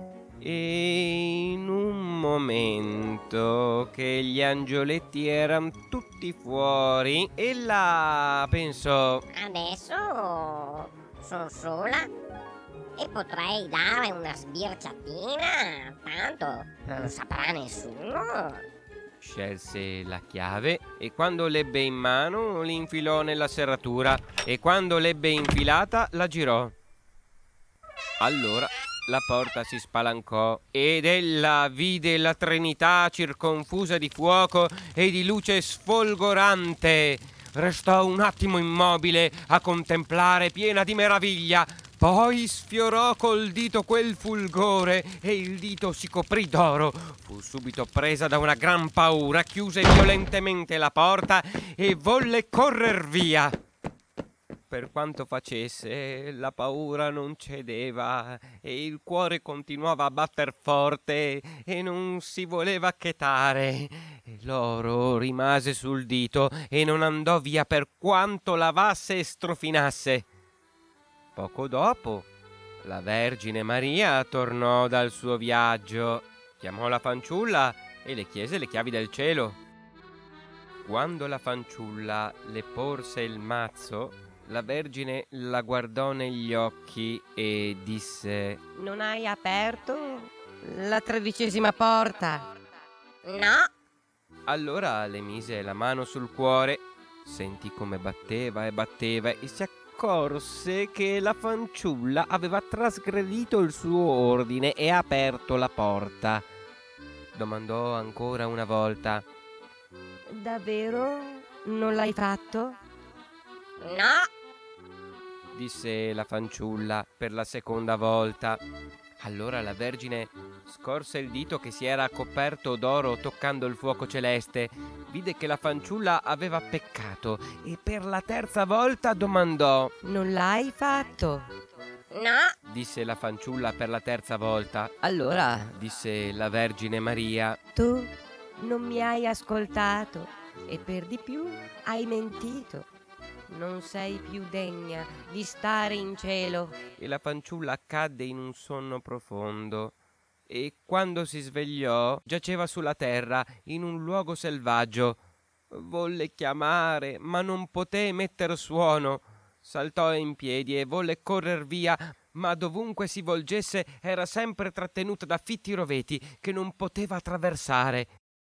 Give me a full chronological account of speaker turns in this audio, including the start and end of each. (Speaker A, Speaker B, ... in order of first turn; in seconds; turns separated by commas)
Speaker A: 0.4-9.2, Speaker B: 9.3-12.1, Speaker B: 13.0-18.6, Speaker A: 19.2-26.7, Speaker A: 28.2-53.5, Speaker A: 54.7-70.3, Speaker A: 71.3-72.3, Speaker A: 72.8-79.6, Speaker A: 80.8-88.6, Speaker C: 88.8-92.5, Speaker B: 93.2-93.7, Speaker A: 94.5-106.5, Speaker A: 107.3-109.2, Speaker C: 110.3-112.8, Speaker B: 113.8-114.3, Speaker A: 115.5-118.6, Speaker A: 119.2-129.9, Speaker C: 130.0-131.5, Speaker B: 132.1-132.5, Speaker A: 132.7-135.0, Speaker C: 135.0-135.7, Speaker A: 135.6-137.6, Speaker C: 137.8-142.9, Speaker C: 143.5-146.8, Speaker A: 147.0-150.0, Speaker A: 150.5-155.2, Speaker A: 155.7-168.1